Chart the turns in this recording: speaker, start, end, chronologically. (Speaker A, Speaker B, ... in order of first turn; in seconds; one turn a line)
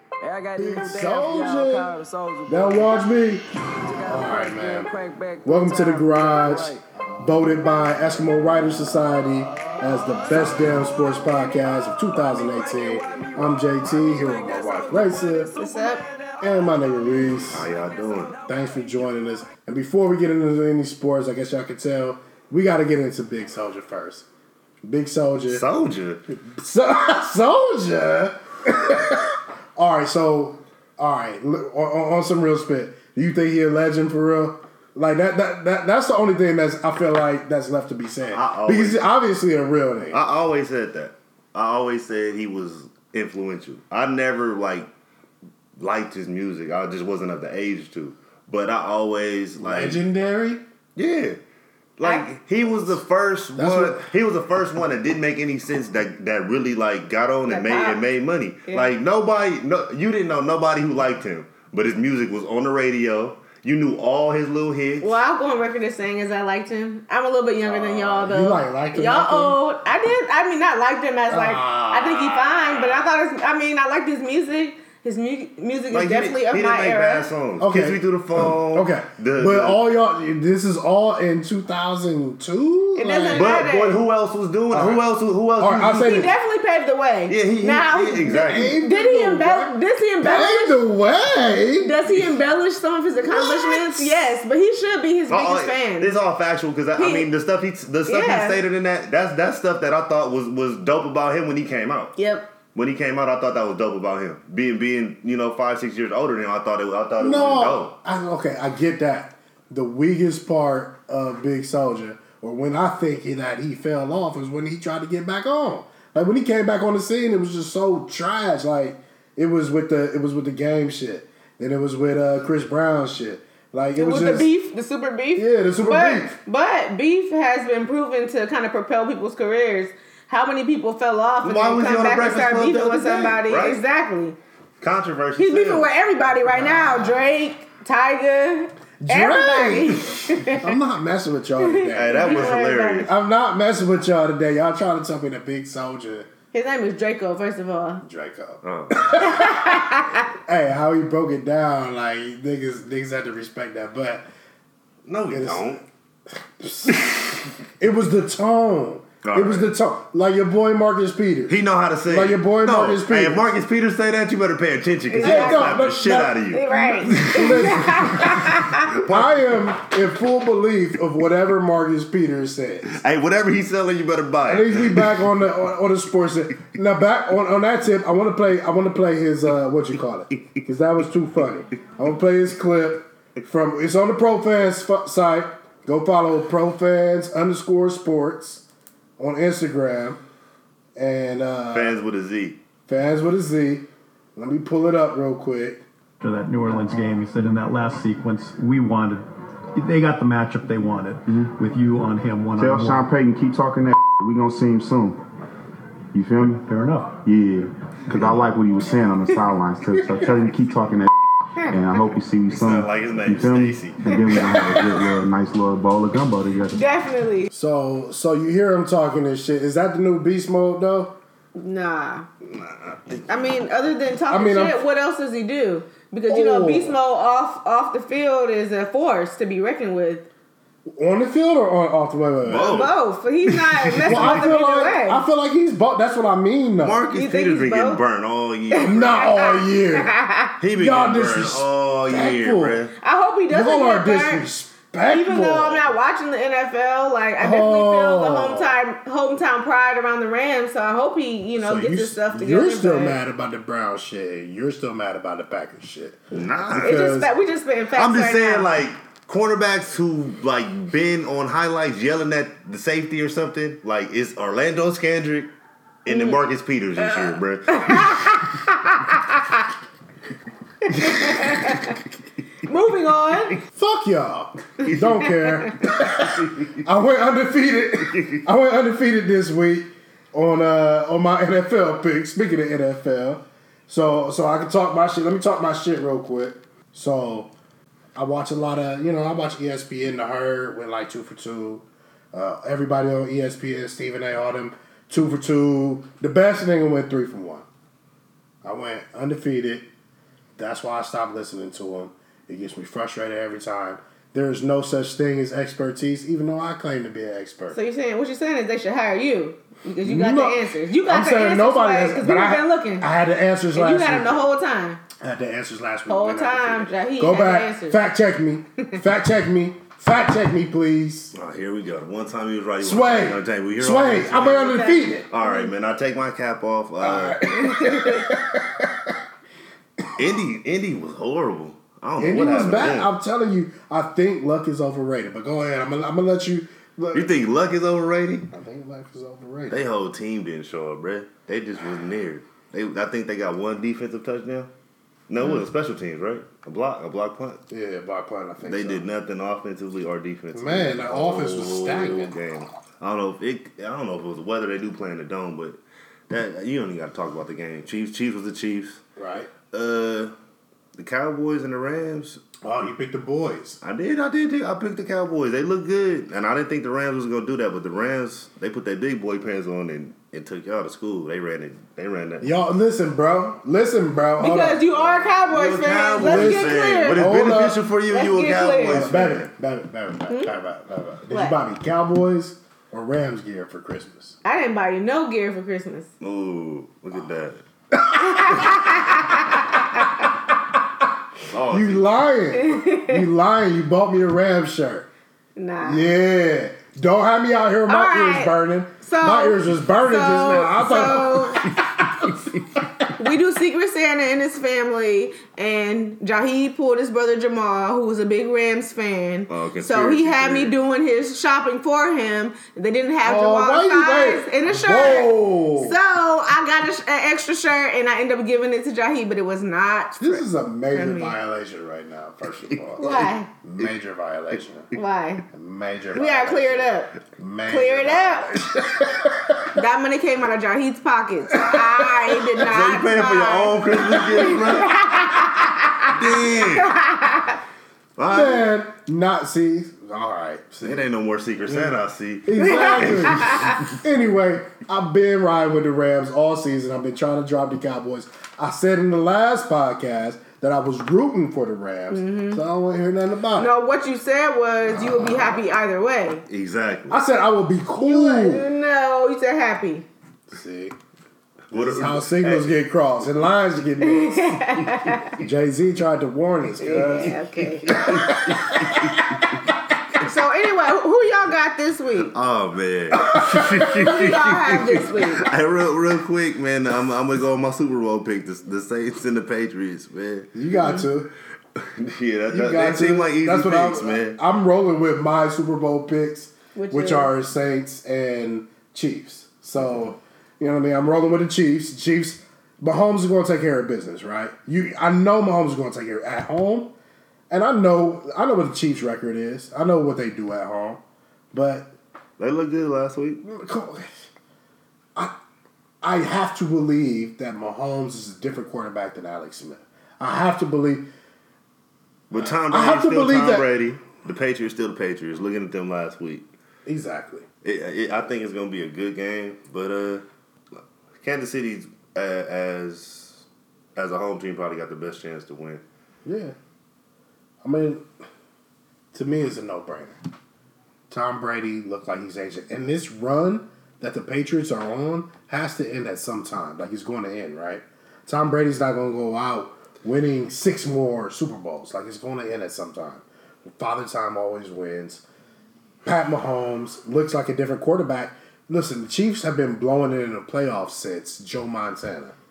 Speaker A: 0.2-3.1
Speaker B: 0.6-1.9
Speaker B: 2.5-3.4
Speaker A: 3.6-6.8
Speaker B: 4.0-4.9
Speaker B: 5.4-15.5
Speaker A: 9.5-19.1
Speaker C: 15.6-16.0
Speaker B: 16.4-17.7
Speaker D: 17.5-18.3
Speaker B: 18.4-24.3
Speaker B: 24.8-25.6
Speaker D: 25.5-26.2
Speaker B: 26.3-40.2
Speaker D: 38.3-39.0
Speaker D: 40.1-44.9
Speaker D: 45.8-50.0
Speaker B: 49.6-50.6
Speaker D: 51.0-51.4
Speaker D: 52.0-65.2
Speaker C: 52.0-52.3
Speaker B: 53.5-54.1
Speaker C: 57.5-58.0
Speaker C: 65.0-77.3
Speaker B: 67.7-69.6
Speaker B: 71.3-72.8
Speaker D: 75.9-79.8
Speaker B: 77.6-83.7
Speaker C: 83.0-84.0
Speaker D: 83.3-86.3
Speaker B: 84.7-86.3
Speaker C: 85.9-90.8
Speaker D: 87.3-88.8
Speaker B: 88.2-91.9
Speaker C: 91.8-96.2
Speaker B: 93.2-94.2
Speaker D: 95.3-102.1
Speaker C: 97.0-97.3
Speaker C: 98.1-98.6
Speaker C: 102.2-102.5
Speaker D: 102.7-108.0
Speaker B: 107.2-124.5
Speaker C: 124.0-134.4
Speaker B: 125.3-126.4
Speaker D: 131.4-133.8
Speaker D: 134.8-135.9
Speaker C: 135.4-140.6
Speaker B: 136.6-137.1
Speaker B: 139.0-146.3
Speaker C: 141.6-143.1
Speaker D: 141.9-143.1
Speaker C: 146.5-148.0
Speaker B: 148.0-149.8
Speaker D: 148.6-149.0
Speaker C: 149.2-150.3
Speaker B: 150.4-154.2
Speaker D: 155.1-155.8
Speaker B: 155.3-155.8
Speaker B: 156.6-163.5
Speaker D: 156.9-157.2
Speaker D: 159.2-159.7
Speaker D: 161.5-167.7
Speaker C: 165.1-165.8
Speaker B: 165.2-173.0
Speaker C: 166.5-168.9
Speaker D: 168.8-169.4
Speaker D: 172.9-175.2
Speaker B: 174.4-188.7
Speaker B: 189.2-190.2
Speaker B: 190.9-192.0
Speaker D: 191.7-192.6
Speaker B: 192.9-195.8
Speaker E: 196.2-203.1
Speaker F: 202.6-205.2
Speaker F: 206.1-206.6
Speaker E: 206.4-207.2
Speaker F: 207.2-211.1
Speaker F: 211.6-216.8
Speaker D: 212.5-214.0
Speaker B: 214.4-215.0
Speaker C: 216.7-217.5
Speaker B: 217.5-221.2
Speaker C: 221.6-222.3
Speaker D: 222.5-223.5
Speaker C: 223.3-230.3
Speaker B: 224.3-224.8
Speaker B: 226.3-227.0
Speaker B: 230.8-232.9
Speaker D: 232.4-232.9
Speaker C: 232.7-235.2
Speaker D: 233.5-234.4
Speaker B: 234.0-237.1
Speaker D: 236.8-239.2
Speaker C: 237.1-238.0
Speaker C: 238.7-240.6
Speaker B: 238.7-240.1
Speaker D: 240.6-242.9
Speaker B: 240.7-242.8
Speaker C: 243.0-244.4
Speaker B: 243.5-245.8
Speaker C: 245.1-253.2
Speaker B: 247.4-248.7
Speaker B: 251.6-257.3
Speaker D: 256.3-257.1
Speaker C: 256.8-258.7
Speaker D: 257.9-265.5
Speaker D: 266.0-268.1
Speaker C: 266.1-266.3
Speaker C: 267.7-269.6
Speaker C: 270.9-272.0
Speaker B: 270.9-271.5
Speaker C: 272.6-273.6
Speaker B: 273.7-287.5
Speaker D: 274.8-276.8
Speaker D: 278.1-278.4
Speaker B: 288.1-297.6
Speaker B: 298.6-299.9
Speaker B: 300.6-307.8
Speaker C: 307.7-313.1
Speaker B: 310.0-314.4
Speaker C: 313.7-315.0
Speaker B: 315.2-321.3
Speaker C: 316.1-318.0
Speaker D: 321.3-327.6
Speaker B: 322.8-325.3
Speaker C: 324.4-325.7
Speaker B: 327.0-329.2
Speaker B: 330.0-330.2
Speaker D: 330.1-333.1
Speaker B: 332.2-337.3
Speaker D: 337.1-338.5
Speaker B: 338.5-339.8
Speaker D: 339.7-344.7
Speaker D: 345.3-347.6
Speaker B: 347.7-349.1
Speaker D: 348.6-355.8
Speaker B: 350.5-352.3
Speaker D: 356.3-359.0
Speaker B: 359.2-359.5
Speaker D: 359.7-360.3
Speaker D: 360.9-362.4
Speaker B: 362.6-363.8
Speaker D: 363.8-372.5
Speaker B: 372.4-374.9
Speaker C: 374.4-377.3
Speaker D: 375.0-379.5
Speaker B: 376.2-377.8
Speaker C: 378.1-379.0
Speaker B: 378.8-384.4
Speaker C: 381.3-381.6
Speaker C: 384.4-386.1
Speaker D: 386.2-387.6
Speaker B: 387.9-388.6
Speaker C: 388.1-390.3
Speaker D: 391.5-392.1
Speaker B: 391.7-395.1
Speaker C: 392.5-393.2
Speaker C: 395.6-396.1
Speaker B: 395.8-402.4
Speaker C: 397.9-401.6
Speaker C: 403.2-421.4
Speaker D: 409.5-410.8
Speaker B: 413.2-416.0
Speaker B: 420.2-424.9
Speaker D: 422.7-423.2
Speaker C: 423.0-423.5
Speaker C: 424.9-425.4
Speaker B: 425.5-429.7
Speaker C: 426.1-427.1
Speaker C: 427.7-428.5
Speaker C: 429.7-437.6
Speaker B: 431.5-432.4
Speaker D: 432.6-435.1
Speaker D: 436.1-436.9
Speaker D: 438.2-438.7
Speaker B: 438.3-441.1
Speaker D: 440.8-444.0
Speaker B: 442.4-453.7
Speaker C: 442.6-443.8
Speaker C: 452.1-452.6
Speaker C: 453.6-456.4
Speaker B: 454.9-455.6
Speaker D: 456.5-457.2
Speaker B: 457.1-458.6
Speaker C: 458.0-460.1
Speaker B: 460.5-460.9
Speaker D: 461.7-462.7
Speaker B: 461.7-464.8
Speaker C: 464.0-465.4
Speaker B: 465.4-469.5
Speaker C: 466.8-468.0
Speaker D: 467.9-469.5
Speaker C: 470.2-472.3
Speaker D: 472.3-480.5
Speaker B: 473.1-474.1
Speaker C: 474.0-475.5
Speaker B: 480.5-481.3
Speaker D: 481.8-484.4
Speaker B: 482.5-496.9
Speaker C: 486.7-487.3
Speaker B: 497.5-501.9
Speaker D: 502.4-503.4
Speaker B: 503.4-504.2
Speaker B: 506.0-511.1
Speaker D: 512.3-516.5
Speaker B: 512.3-513.7
Speaker B: 516.8-517.5
Speaker D: 517.6-520.2
Speaker D: 521.2-523.4
Speaker D: 524.0-525.8
Speaker B: 526.2-526.5
Speaker B: 527.6-528.1
Speaker B: 529.1-530.2
Speaker B: 531.1-545.2
Speaker B: 546.0-552.4